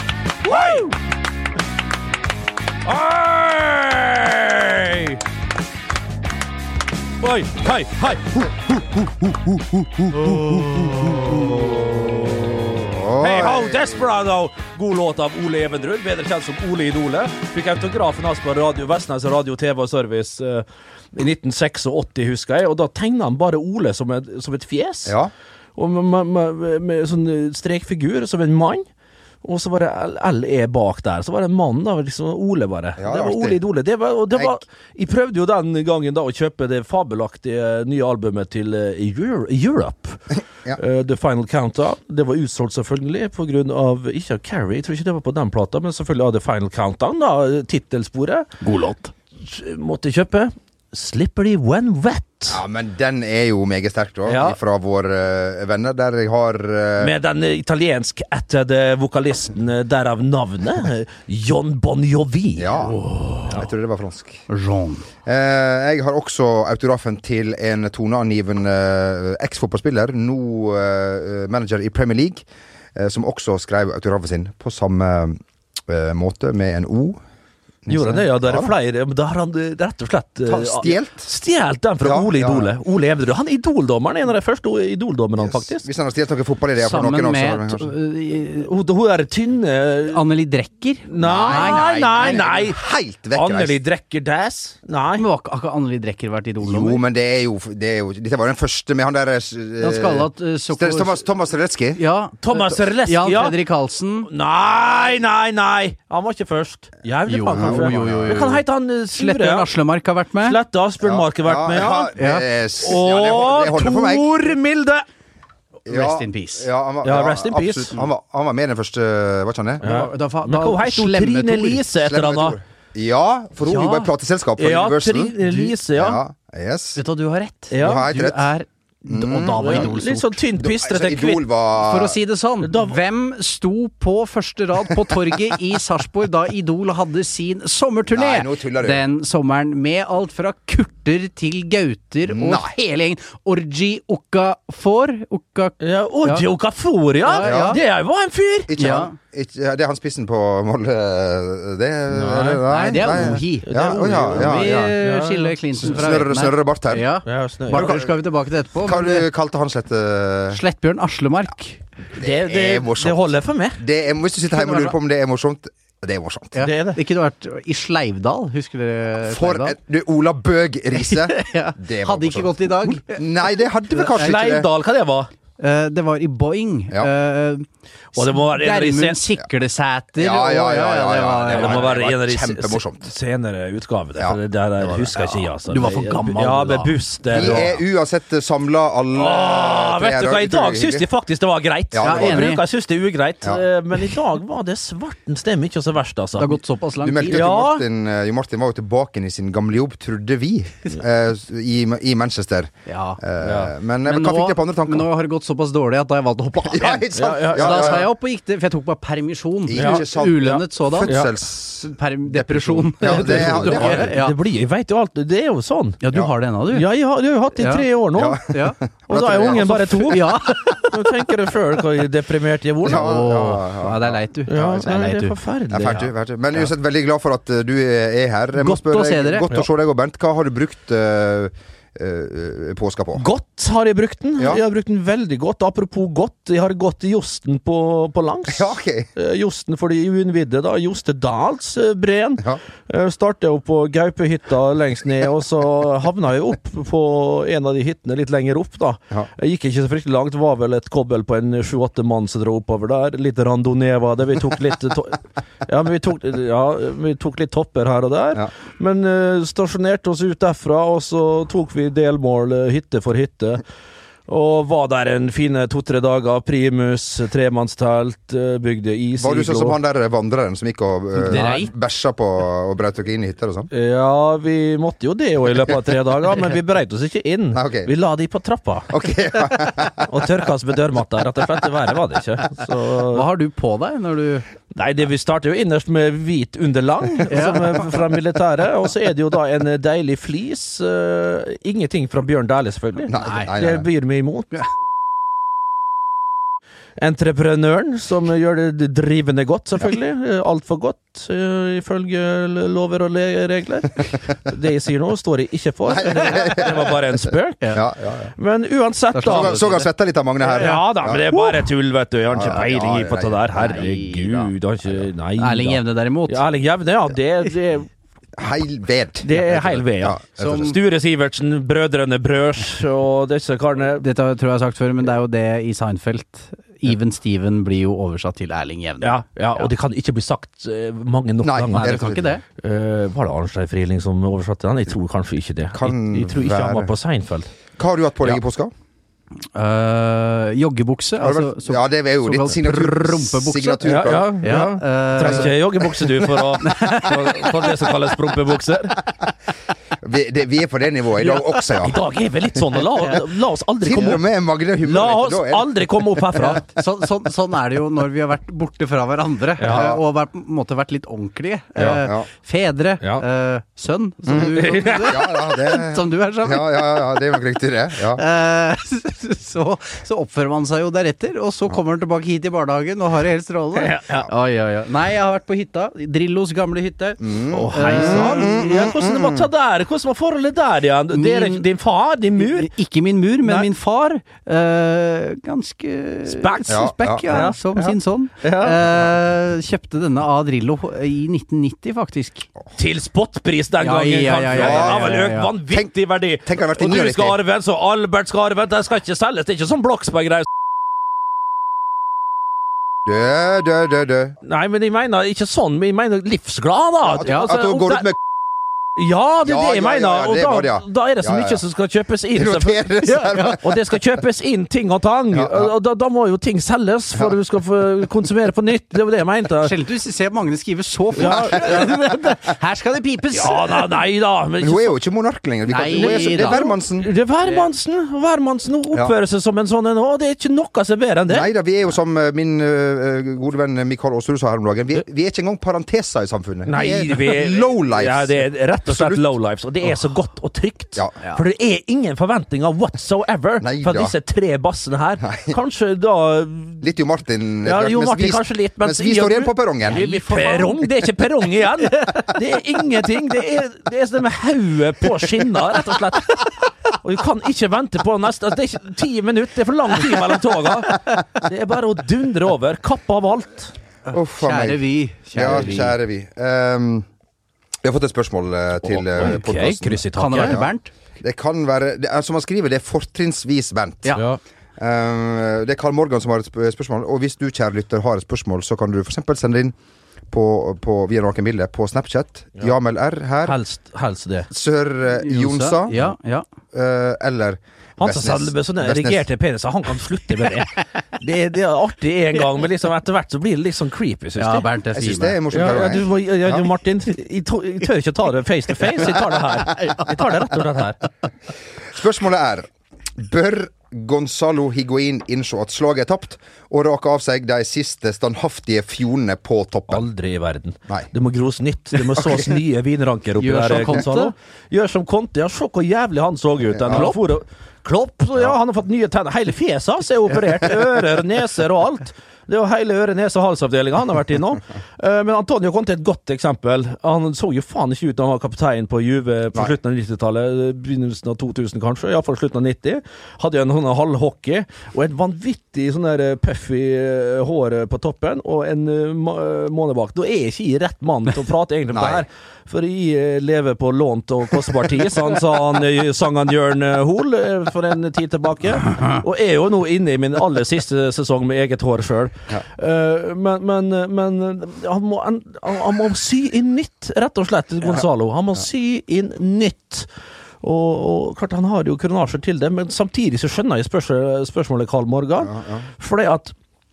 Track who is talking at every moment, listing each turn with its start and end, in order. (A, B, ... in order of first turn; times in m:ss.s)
0:00.4-0:00.9 A
0:00.5-0:00.8 B
0:02.8-0:05.2 A
0:07.2-0:08.5 A
0:10.0-0:12.1 A
0:10.2-0:12.0 C
0:12.7-0:14.0 C
0:13.1-0:25.1 A
0:25.0-0:25.3 C
0:25.8-0:28.8 A
0:29.4-0:40.2 A
0:33.0-0:33.6 C
0:34.3-0:34.6 C
0:40.8-0:48.6 A
0:48.6-0:49.1 B
0:49.4-0:52.6 A
0:52.5-0:57.1 C
0:54.3-0:54.6 A
0:57.0-1:03.6 A
1:02.6-1:04.4 C
1:04.5-1:05.1 B
1:05.2-1:17.2 C
1:17.8-1:18.7 C
1:17.9-1:25.8 A
1:20.5-1:21.3 C
1:22.0-1:22.7 C
1:25.4-1:27.9 C
1:26.8-1:28.7 B
1:28.6-1:30.2 A
1:30.1-1:32.4 B
1:31.1-1:32.8 A
1:31.2-1:33.8 C
1:33.3-1:35.2 A
1:35.1-1:37.0 B
1:36.6-1:42.0 C
1:39.8-1:41.2 B
1:41.9-1:44.3 B
1:42.4-1:43.6 A
1:44.2-1:49.7 A
1:47.3-1:50.6 B
1:47.5-1:48.4 C
1:50.4-1:52.1 A
1:51.0-1:54.4 C
1:52.2-1:52.4 B
1:52.8-1:55.0 A
1:55.8-1:56.7 B
1:55.9-1:59.8 C
1:57.0-1:58.0 A
1:59.8-2:02.6 A
1:59.8-2:01.8 B
2:02.0-2:05.3 C
2:03.6-2:04.1 B
2:04.6-2:06.2 A
2:05.4-2:05.7 B
2:05.9-2:07.0 C
2:07.0-2:10.4 B
2:07.7-2:08.1 A
2:07.8-2:08.5 C
2:09.1-2:09.9 C
2:09.6-2:11.4 A
2:10.6-2:12.2 C
2:11.8-2:26.5 B
2:12.6-2:13.0 A
2:18.1-2:19.0 C
2:22.3-2:22.7 C
2:25.8-2:28.7 A
2:27.2-2:27.8 B
2:27.4-2:27.8 C
2:28.7-2:34.9 C
2:28.8-2:29.1 B
2:32.1-2:36.0 A
2:32.6-2:39.3 B
2:35.8-2:37.1 C
2:37.2-2:37.9 A
2:37.7-2:38.2 C
2:38.8-2:40.6 C
2:40.5-2:41.8 B
2:42.2-2:43.8 A
2:42.2-2:46.5 C
2:44.5-2:44.9 B
2:46.5-2:49.8 B
2:46.6-2:47.0 A
2:49.2-2:54.7 C
2:51.0-2:53.2 B
2:54.1-2:55.3 A
2:55.6-3:01.9 B
2:58.1-2:59.2 A
3:00.2-3:03.1 C
3:01.4-3:07.8 A
3:04.2-3:05.5 C
3:05.7-3:07.6 B
3:07.3-3:11.0 C
3:09.1-3:16.6 A
3:11.9-3:12.5 C
3:12.0-3:12.6 B
3:16.4-3:17.5 B
3:17.0-3:25.1 C
3:17.3-3:17.8 A
3:22.8-3:23.2 B
3:23.4-3:23.7 A
3:24.0-3:31.3 B
3:26.7-3:28.1 C
3:27.1-3:28.1 A
3:29.7-3:34.1 C
3:29.7-3:30.0 A
3:31.0-3:31.3 A
3:31.8-3:34.4 B
3:33.0-3:36.0 A
3:36.0-3:36.9 B
3:36.7-3:38.4 A
3:37.5-3:37.9 B
3:38.1-3:40.1 C
3:38.5-3:41.1 B
3:39.1-3:43.1 A
3:42.8-3:45.4 B
3:42.8-3:44.2 C
3:44.5-3:46.1 A
3:45.7-3:53.2 C
3:48.6-3:49.6 B
3:53.2-4:23.6 A
3:58.5-3:59.1 C
4:24.3-4:29.8 A
4:29.2-4:33.7 C
4:31.2-4:31.7 B
4:33.7-4:38.9 A
4:37.5-4:37.9 C
4:38.9-4:40.1 C
4:40.0-4:43.2 A
4:43.1-4:44.4 B
4:44.7-4:54.5 A
4:47.3-4:47.8 B
4:53.1-4:53.8 C
4:53.2-4:53.5 B
4:57.0-5:07.8 A
5:05.9-5:07.0 C
5:07.7-5:08.3 C
5:08.4-5:09.6 A
5:09.1-5:09.9 B
5:09.2-5:11.3 C
5:10.5-5:17.9 A
5:11.3-5:11.6 B
5:12.3-5:13.9 C
5:13.5-5:14.5 B
5:15.4-5:16.4 B
5:18.4-5:20.7 C
5:19.2-5:24.0 A
5:20.4-5:20.8 B
5:24.0-5:29.7 B
5:29.0-5:32.0 A
5:31.4-5:32.2 C
5:31.7-5:32.4 B
5:32.6-5:37.5 A
5:35.7-5:36.9 C
5:37.8-5:38.7 C
5:39.5-5:45.6 B
5:41.2-5:44.6 C
5:43.8-5:49.0 A
5:45.2-5:45.5 C
5:46.6-5:47.6 B
5:50.0-5:52.0 C
5:51.8-5:54.2 A
5:53.8-5:56.6 C
5:54.8-5:56.6 A
5:56.3-6:07.1 B
5:59.6-5:59.9 A
5:59.7-6:00.0 C
6:01.8-6:02.2 C
6:04.3-6:05.2 A
6:05.1-6:08.2 C
6:08.2-6:18.5 B
6:13.7-6:14.3 A
6:17.2-6:19.5 C
6:17.5-6:22.7 A
6:21.1-6:21.7 B
6:22.4-6:32.5 B
6:23.4-6:23.7 A
6:26.3-6:28.8 A
6:26.7-6:27.3 C
6:32.8-6:40.5 A
6:33.8-6:35.5 B
6:34.5-6:35.2 C
6:36.4-6:37.4 C
6:43.0-6:44.4 C
6:44.4-6:48.1 A
6:47.1-6:48.2 C
6:47.2-6:47.6 B
6:49.0-6:52.8 A
6:49.4-6:51.6 C
6:52.3-6:53.6 C
6:53.0-6:53.6 B
6:53.6-6:59.7 A
6:55.3-6:55.7 C
6:59.6-7:03.9 B
7:01.1-7:02.1 A
7:03.3-7:04.9 A
7:04.6-7:07.1 C
7:05.7-7:06.7 B
7:05.9-7:11.5 A
7:07.4-7:07.7 B
7:11.3-7:19.2 C
7:16.7-7:26.8 A
7:23.6-7:24.1 C
7:25.2-7:25.6 C
7:26.8-7:30.1 C
7:27.6-7:43.7 A
7:29.9-7:31.0 B
7:31.8-7:32.2 B
7:44.1-7:46.0 B
7:44.1-7:44.8 C
7:45.3-7:47.0 C
7:47.8-7:50.7 C
7:48.8-7:50.6 A
7:50.1-7:50.9 B
7:51.2-7:54.2 C
7:54.1-7:54.4 A
7:54.8-7:59.7 C
8:00.3-8:03.6 C
8:03.4-8:04.5 A
8:04.5-8:06.0 C
8:05.2-8:06.4 B
8:06.7-8:09.2 C
8:08.0-8:14.6 A
8:14.4-8:15.4 B
8:14.9-8:16.1 C
8:15.5-8:21.0 A
8:19.8-8:20.0 B
8:21.9-8:30.0 C
8:29.9-9:20.1 A
8:32.1-8:32.5 C
8:33.4-8:34.3 B
8:36.9-8:37.2 B
9:01.9-9:02.2 C
9:20.6-9:26.5 A
9:25.4-9:25.8 C